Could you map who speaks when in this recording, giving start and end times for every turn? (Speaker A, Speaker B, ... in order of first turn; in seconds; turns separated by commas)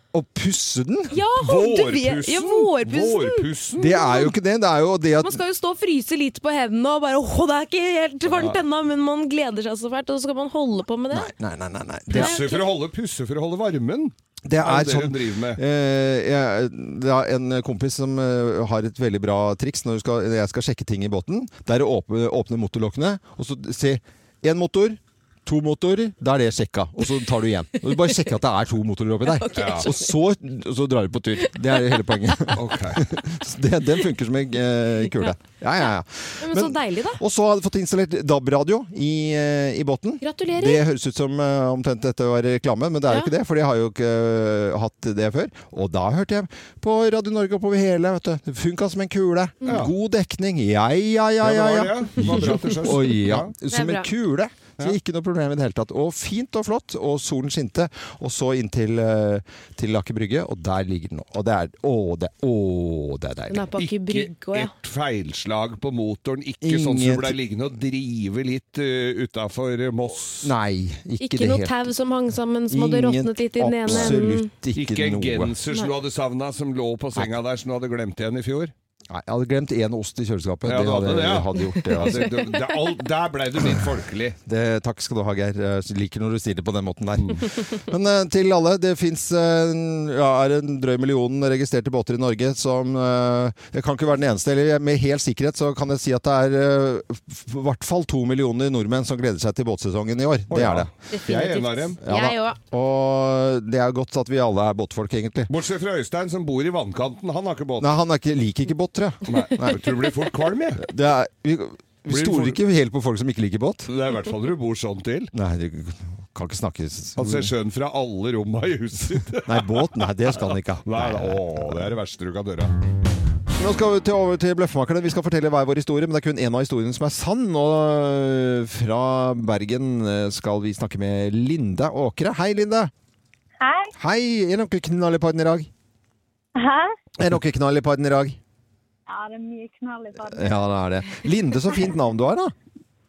Speaker A: 0.1-1.1, Speaker B: 1.1-4.3, Speaker C: 1.4-4.0, Speaker A: 3.8-5.4, Speaker B: 5.2-11.3, Speaker A: 11.1-12.3, Speaker B: 12.1-12.7, Speaker C: 12.1-15.6, Speaker A: 14.4-63.7, Speaker B: 29.3-30.1, Speaker C: 29.5-29.9, Speaker B: 31.7-32.1, Speaker C: 32.5-33.0, Speaker B: 36.4-37.2, Speaker B: 40.2-40.8, Speaker C: 49.6-49.9, Speaker C: 51.4-53.5, Speaker B: 53.7-54.1, Speaker B: 63.5-64.7, Speaker C: 63.8-70.5, Speaker A: 66.6-67.3, Speaker A: 70.4-71.9, Speaker B: 71.2-74.5, Speaker A: 72.7-75.5, Speaker C: 74.7-78.7, Speaker A: 79.1-82.6, Speaker C: 80.7-84.4, Speaker A: 83.6-83.8, Speaker A: 84.4-100.9, Speaker C: 100.5-102.0, Speaker B: 101.1-102.6, Speaker A: 102.0-105.5, Speaker C: 105.5-108.0, Speaker A: 107.8-109.9, Speaker C: 109.3-110.8, Speaker A: 110.8-113.9, Speaker C: 112.1-112.6, Speaker C: 113.9-115.3, Speaker A: 115.3-117.5, Speaker C: 117.2-122.7, Speaker A: 119.4-121.9, Speaker A: 123.5-132.9, Speaker D: 133.6-133.9, Speaker A: 134.0-135.7, Speaker D: 136.6-136.9, Speaker A: 137.2-138.4, Speaker D: 139.1-140.8, Speaker A: 140.2-142.5